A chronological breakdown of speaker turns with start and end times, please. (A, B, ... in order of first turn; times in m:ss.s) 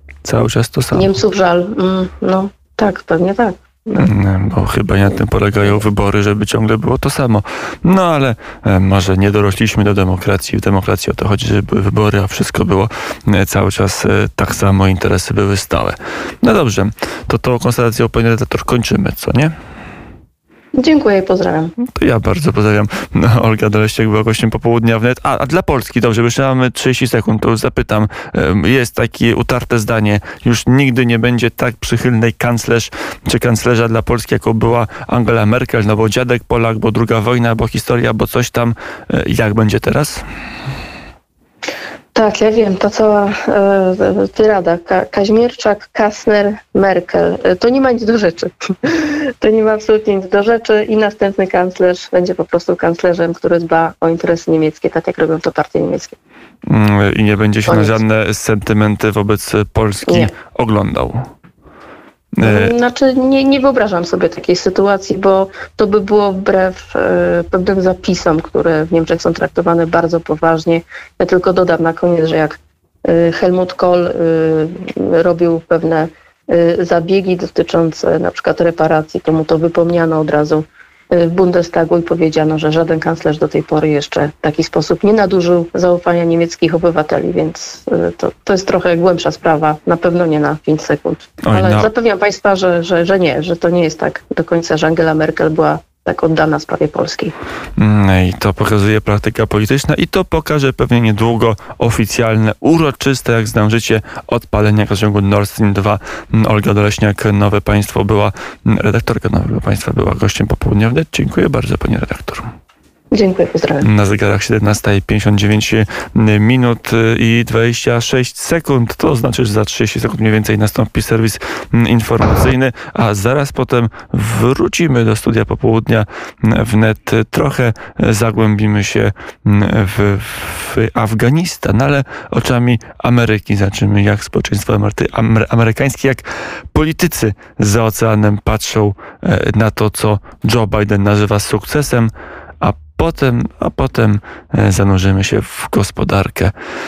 0:00.2-0:01.1 A
0:00.9-0:04.1 B
0:04.0-0:19.5 A
0:20.8-0:21.7 B
0:21.9-0:40.2 A
0:42.1-0:56.2 B
0:56.7-1:01.2 A
0:57.7-0:58.0 B
1:00.1-1:00.3 B
1:02.4-1:02.7 A
1:02.4-1:37.3 B
1:31.4-1:31.9 A
1:37.8-1:52.5 A
1:53.1-1:53.9 B
1:53.8-2:26.5 A